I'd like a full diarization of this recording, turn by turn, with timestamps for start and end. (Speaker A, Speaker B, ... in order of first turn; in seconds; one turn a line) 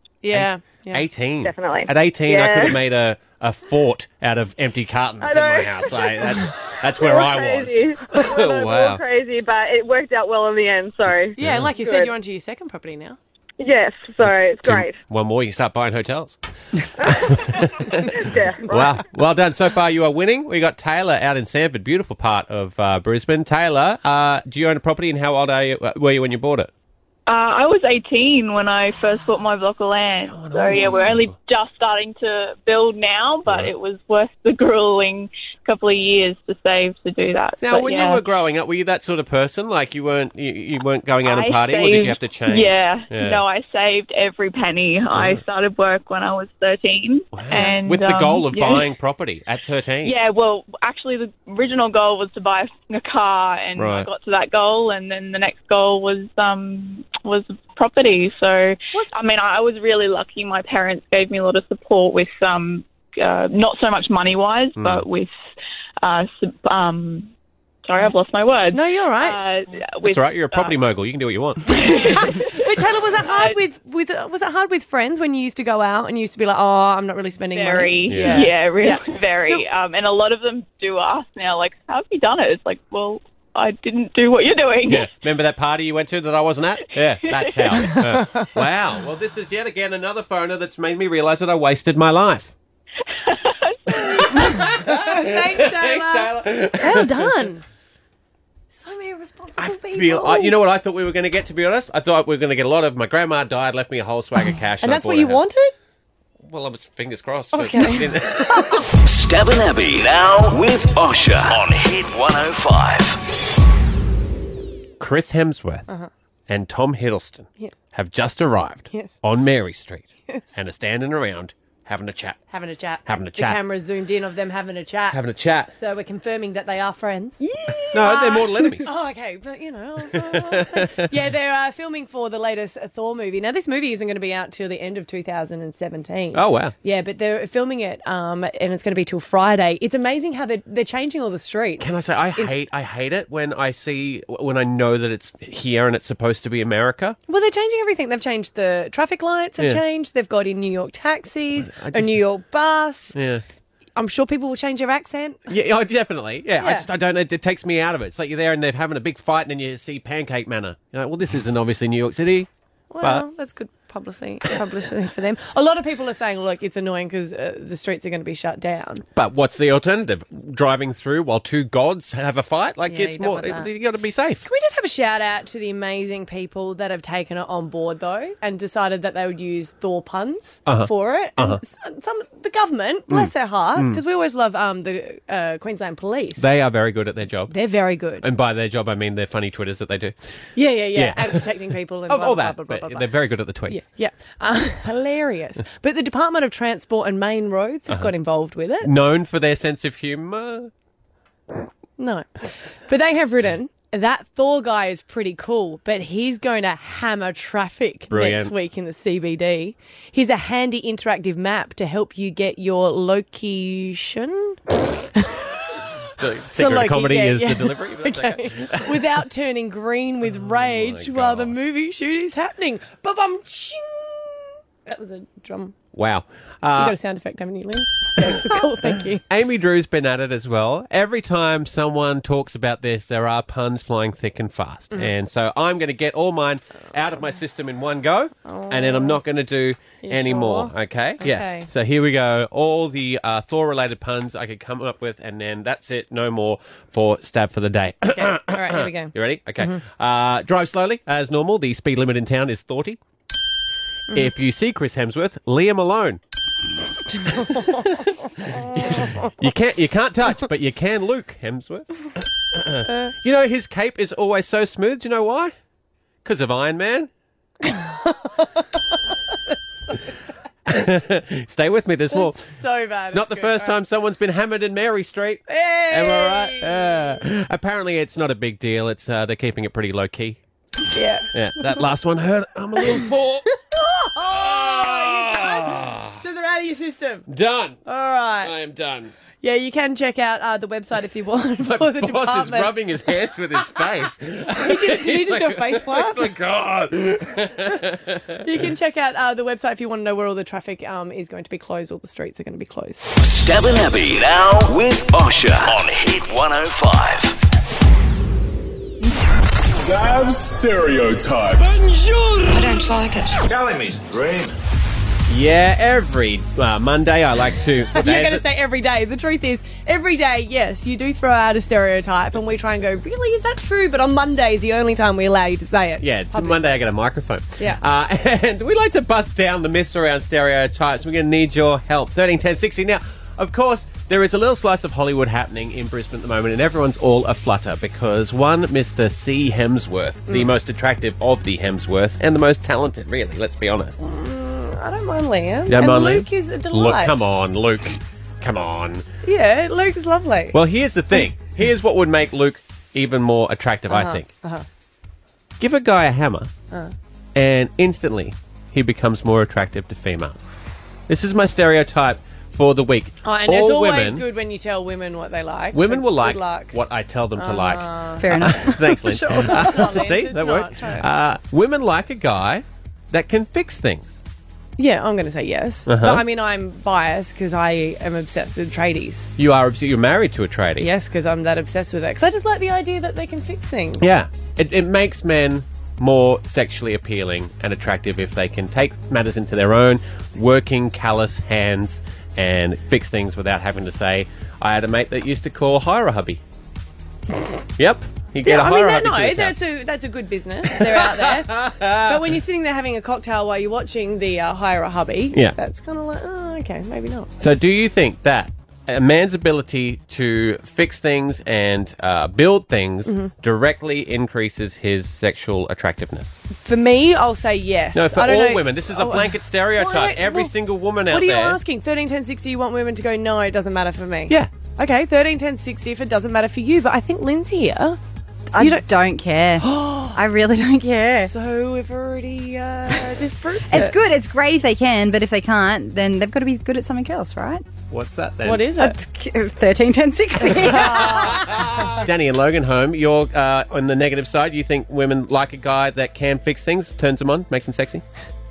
Speaker A: 0.2-1.0
Speaker B: 0.3-9.0
Speaker C: 1.4-2.8
Speaker C: 5.2-12.1
Speaker B: 11.4-11.7
Speaker A: 11.4-13.2
Speaker C: 13.6-14.9
Speaker B: 14.2-26.7
Speaker C: 17.0-17.4
Speaker C: 18.1-19.0
Speaker D: 27.3-38.2
Speaker B: 30.2-31.3
Speaker B: 33.5-33.7
Speaker B: 37.6-43.4
Speaker D: 41.2-48.9
Speaker B: 45.1-45.4
Speaker B: 47.3-50.1
Speaker D: 50.0-65.3
Speaker B: 53.8-54.1
Speaker B: 64.8-65.0
Speaker D: 66.0-67.3
Speaker D: 67.8-70.7
Speaker A: 68.7-69.4
Speaker B: 70.0-72.0
Speaker D: 71.7-72.6
Speaker A: 71.8-79.6
Speaker D: 73.2-73.6
Speaker D: 77.5-85.1
Speaker B: 78.1-78.5
Speaker B: 84.8-92.5
Speaker D: 87.2-88.0
Speaker D: 93.2-94.2
Speaker B: 93.9-97.3
Speaker A: 94.3-97.6
Speaker A: 98.7-100.6
Speaker B: 99.6-105.4
Speaker A: 104.8-105.7
Speaker B: 106.4-108.9
Speaker A: 107.5-108.8
Speaker E: 109.0-113.2
Speaker B: 115.0-115.9
Speaker B: 116.5-122.4
Speaker A: 122.5-142.6
Speaker B: 123.0-123.6
Speaker B: 125.1-125.7
Speaker B: 127.9-128.9
Speaker B: 130.1-131.1
Speaker B: 136.3-136.7
Speaker B: 141.8-147.2
Speaker A: 147.3-153.2
Speaker B: 151.6-152.2
Speaker B: 153.1-153.4
Speaker A: 153.9-155.4
Speaker B: 155.5-162.5
Speaker A: 156.6-156.9
Speaker A: 162.9-169.0
Speaker B: 169.2-174.4
Speaker A: 172.9-173.7
Speaker A: 174.4-186.5
Speaker B: 180.7-181.6
Speaker B: 183.1-184.0
Speaker B: 186.4-187.6
Speaker A: 187.5-188.2
Speaker B: 188.2-190.2
Speaker A: 190.5-193.1
Speaker B: 190.9-191.5
Speaker B: 192.1-193.8
Speaker A: 193.7-198.9
Speaker B: 198.8-200.7
Speaker A: 202.0-215.7
Speaker B: 208.1-208.5
Speaker B: 216.2-219.2
Speaker A: 216.5-225.7
Speaker B: 220.3-221.5
Speaker B: 225.9-227.0
Speaker A: 226.7-229.2
Speaker B: 229.3-253.0
Speaker A: 238.4-239.2
Speaker A: 240.0-241.7
Speaker A: 248.1-249.8
Speaker B: 254.1-256.2
Speaker A: 257.2-259.3
Speaker B: 257.3-265.5
Speaker B: 266.2-267.1
Speaker A: 267.7-268.1
Speaker B: 270.7-272.5
Speaker A: 272.1-273.8
Speaker B: 273.1-280.4
Speaker A: 275.5-277.2
Speaker A: 280.9-281.8
Speaker B: 281.3-286.2
Speaker A: 284.0-287.2
Speaker B: 287.3-287.8
Speaker A: 287.8-288.5
Speaker B: 288.4-289.1
Speaker A: 289.4-292.7
Speaker B: 291.6-298.4
Speaker A: 294.5-296.3
Speaker A: 298.4-303.1
Speaker E: 303.1-307.4
Speaker F: 309.9-312.9
Speaker B: 315.3-318.4
Speaker A: 317.9-326.8
Speaker B: 326.0-344.0
Speaker A: 344.0-347.2
Speaker B: 345.7-349.1
Speaker A: 349.2-350.6
Speaker B: 350.5-354.3
Speaker A: 353.9-354.6
Speaker B: 355.6-356.5
Speaker B: 357.3-360.5
Speaker B: 361.1-364.2
Speaker A: 363.2-366.8
Speaker B: 365.7-374.2
Speaker A: 367.4-371.1
Speaker G: 368.2-369.0
Speaker A: 374.8-379.3
Speaker B: 375.9-376.2
Speaker B: 379.4-380.9
Speaker A: 380.8-384.1
Speaker B: 384.0-396.4
Speaker B: 397.8-399.6
Speaker A: 398.4-407.3
Speaker B: 400.7-402.3
Speaker B: 407.4-416.4
Speaker A: 413.1-413.3
Speaker A: 416.6-420.5
Speaker B: 417.9-421.6
Speaker A: 421.1-428.0
Speaker G: 428.5-431.3
Speaker A: 428.6-428.9
Speaker A: 429.6-430.2
Speaker A: 431.2-434.0
Speaker G: 433.7-437.6
Speaker B: 437.9-438.8
Speaker A: 438.4-439.0
Speaker G: 438.8-441.4
Speaker A: 440.5-441.6
Speaker B: 440.8-448.0